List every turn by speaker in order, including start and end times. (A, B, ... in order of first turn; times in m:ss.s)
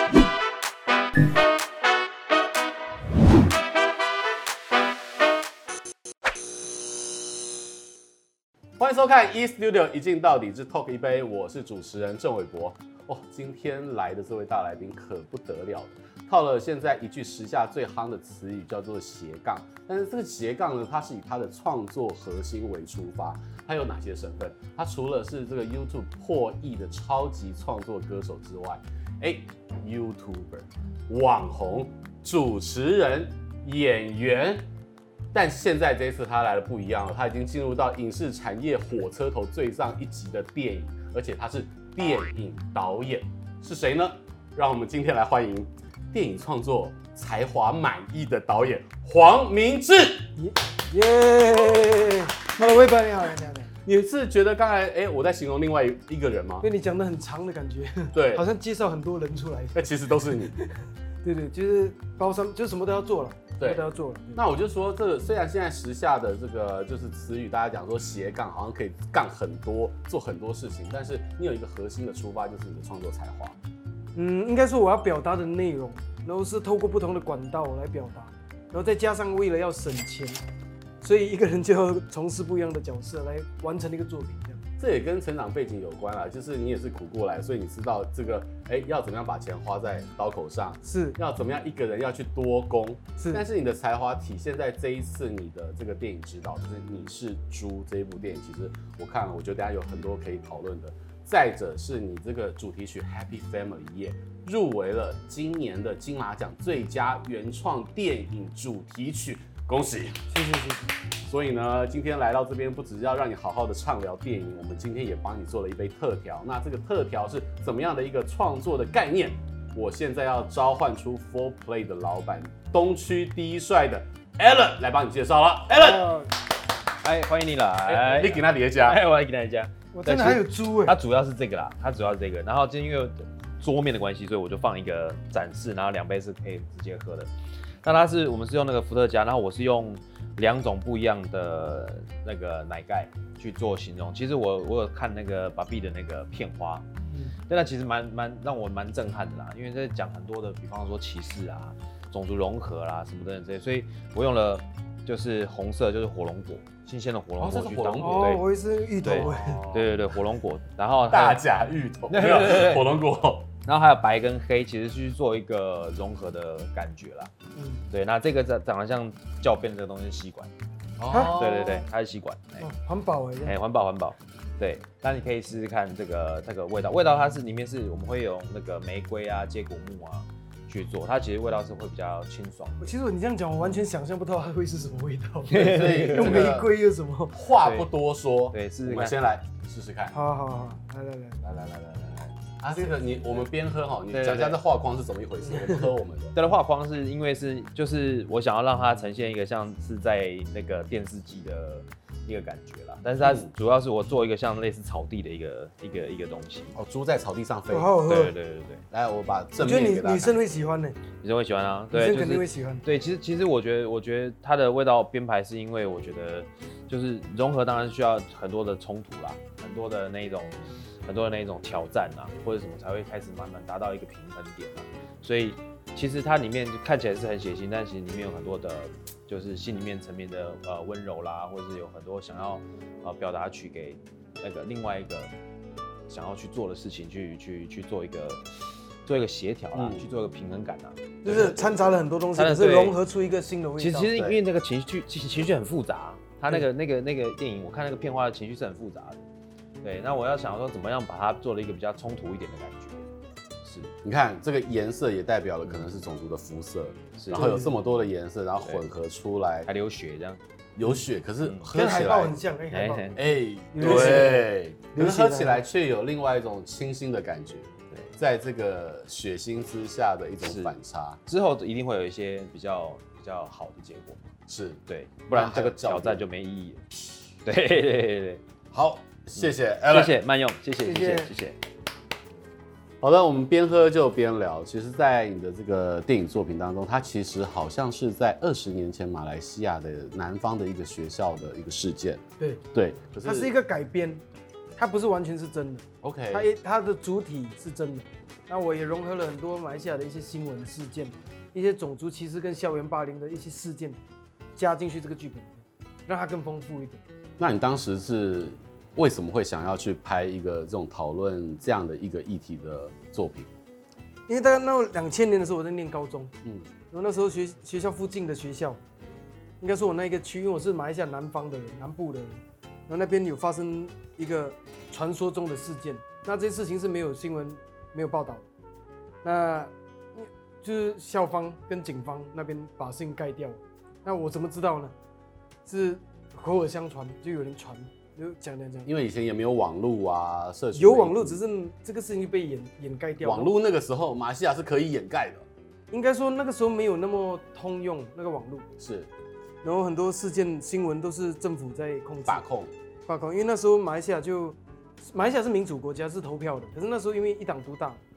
0:08.8-0:34.6 A
0:35.3-0:50.3 A
0:50.4-0:53.7 B
0:53.8-0:56.7 A
0:56.6-1:04.4 B
0:58.1-0:58.4 A
0:59.7-1:00.6 A
1:04.3-1:13.6 A
1:14.1-1:20.4 B
1:21.0-1:24.6 B
1:24.8-1:50.2 A
1:30.8-1:31.2 B
1:33.2-1:33.4 B
1:50.3-1:50.9 B
1:51.2-2:06.1 A
2:05.7-2:06.3 B
2:07.0-2:17.3 C
2:07.9-2:09.0 A
2:09.9-2:11.0 B
2:17.8-2:26.8 C
2:27.5-2:38.4 C
2:37.4-2:38.4 A
2:38.0-2:39.7 B
2:39.0-2:41.4 C
2:39.1-2:39.9 A
2:41.1-2:43.5 A
2:42.1-2:42.9 C
2:43.6-2:47.3 C
2:47.5-2:47.8 B
2:47.9-2:50.5 C
2:51.0-2:51.8 A
2:51.1-2:51.4 B
2:51.3-2:52.7 C
2:52.6-2:53.5 B
2:53.4-3:02.8 C
3:02.8-3:07.4 B
3:05.5-3:06.5 C
3:05.6-3:06.7 A
3:07.3-3:10.2 A
3:07.6-3:07.9 C
3:08.5-3:09.2 C
3:10.1-3:11.5 B
3:11.5-3:16.3 A
3:14.1-3:14.6 C
3:16.3-3:26.7 C
3:23.2-3:23.5 A
3:26.7-3:27.9 A
3:27.7-3:28.3 B
3:28.1-3:28.8 C
3:28.9-3:30.4 A
3:29.6-3:31.0 B
3:31.2-3:55.3 C
3:31.9-3:32.8 B
3:56.1-3:58.4 C
3:59.0-4:01.6 C
3:59.7-4:00.1 A
4:01.2-4:04.1 B
4:01.2-4:01.5 A
4:02.3-4:03.0 C
4:03.8-4:09.2 C
4:09.8-4:13.1 C
4:13.6-4:13.9 C
4:14.0-4:19.7 A
4:17.2-4:17.5 C
4:17.3-4:17.7 B
4:19.7-4:20.4 C
4:20.8-4:22.4 A
4:21.7-4:23.1 B
4:22.7-4:23.2 C
4:23.2-4:31.2 A
4:23.7-4:25.6 B
4:23.8-4:24.3 C
4:30.4-4:30.7 C
4:31.3-4:34.3 C
4:34.5-4:34.8 A
4:34.9-4:36.8 C
4:35.3-4:36.2 A
4:37.4-4:38.4 C
4:38.7-4:40.2 A
4:39.4-4:41.6 C
4:40.8-4:41.3 B
4:43.0-4:53.5 A
4:53.2-4:54.2 B
4:54.8-5:04.0 B
4:56.0-4:56.5 A
5:04.6-5:07.0 B
5:07.4-5:13.5 A
5:14.3-5:16.3 B
5:16.9-5:18.8 B
5:19.6-5:28.4 B
5:29.2-5:34.9 B
5:35.6-5:38.9 B
5:38.8-5:41.4 A
5:40.7-5:43.5 B
5:43.2-5:45.4 A
5:45.9-5:48.7 B
5:48.8-5:49.1 A
5:49.6-5:52.4 B
5:52.3-5:52.7 A
5:53.1-5:58.0 B